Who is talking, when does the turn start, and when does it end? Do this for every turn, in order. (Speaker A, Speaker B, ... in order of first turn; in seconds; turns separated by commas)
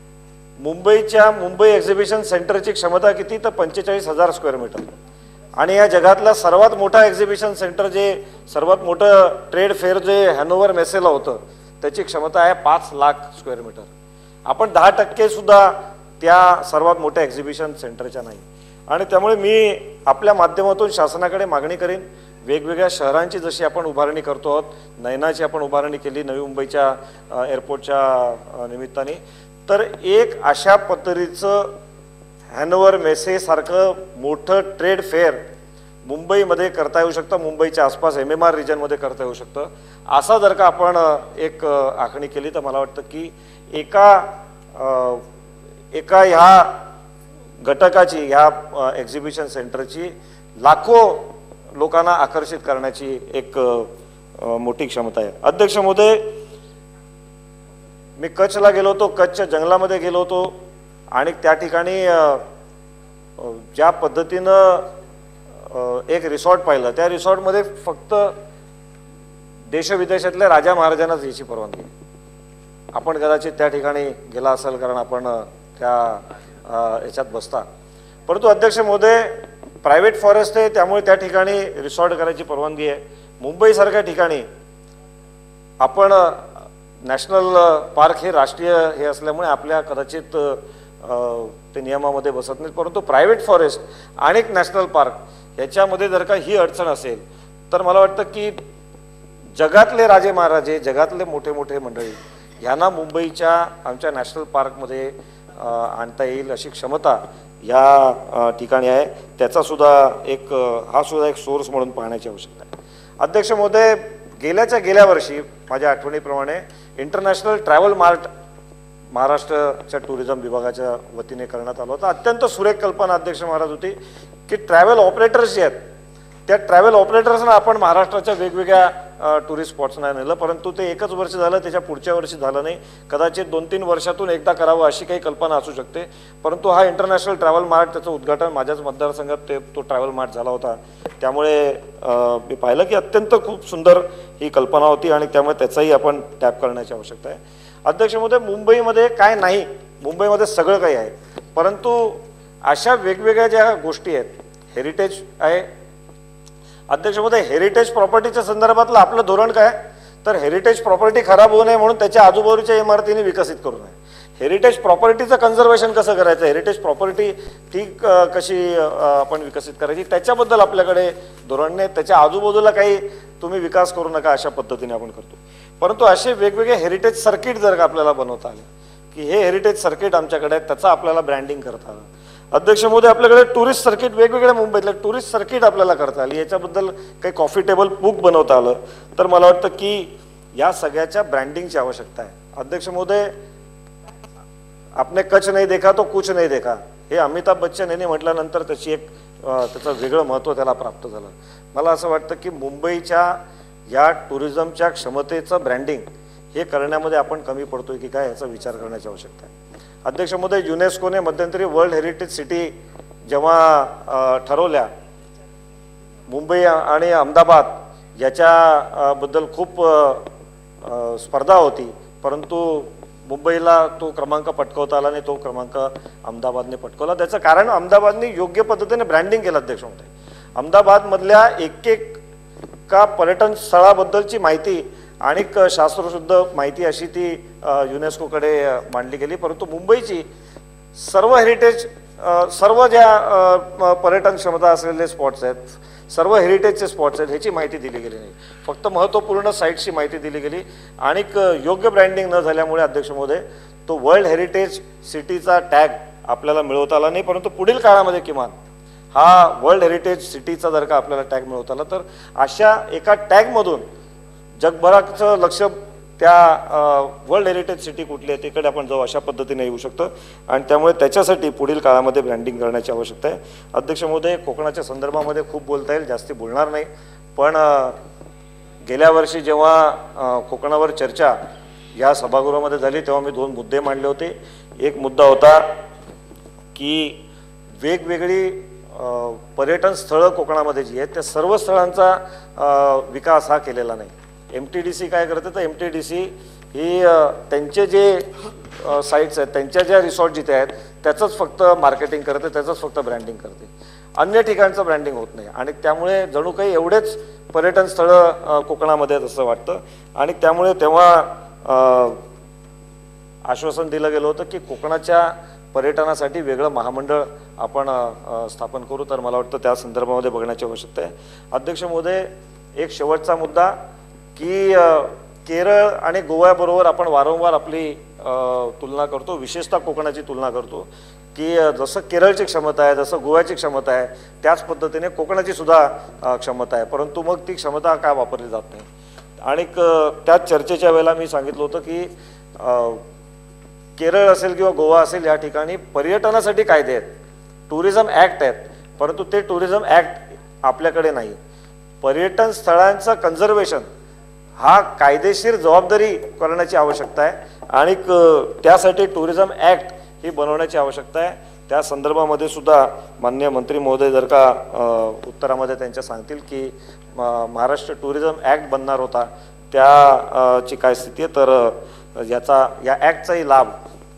Speaker A: 0.6-4.9, Speaker A: 5.6-13.9, Speaker A: 14.5-31.8, Speaker A: 32.5-35.4, Speaker A: 36.0-45.2, Speaker A: 45.9-46.8, Speaker A: 47.6-56.3, Speaker A: 58.2-60.6, Speaker A: 61.1-62.4, Speaker A: 63.4-64.9, Speaker A: 65.6-68.3, Speaker A: 69.7-71.9, Speaker A: 72.9-77.7, Speaker A: 78.3-84.5, Speaker A: 85.8-98.6, Speaker A: 99.5-118.3, Speaker A: 119.1-124.0, Speaker A: 124.5-125.8, Speaker A: 126.5-155.7, Speaker A: 156.9-193.3, Speaker A: 195.0-209.5, Speaker A: 210.1-212.7, Speaker A: 213.3-214.9, Speaker A: 216.3-220.3, Speaker A: 220.8-232.2, Speaker A: 232.9-240.3, Speaker A: 240.9-258.5, Speaker A: 259.1-263.8, Speaker A: 264.6-278.0, Speaker A: 278.9-281.4, Speaker A: 282.0-285.6, Speaker A: 286.8-287.2, Speaker A: 287.8-312.2, Speaker A: 313.5-323.8, Speaker A: 324.4-338.9, Speaker A: 339.4-343.0, Speaker A: 344.0-347.1, Speaker A: 347.7-351.4, Speaker A: 352.0-353.9, Speaker A: 354.6-373.7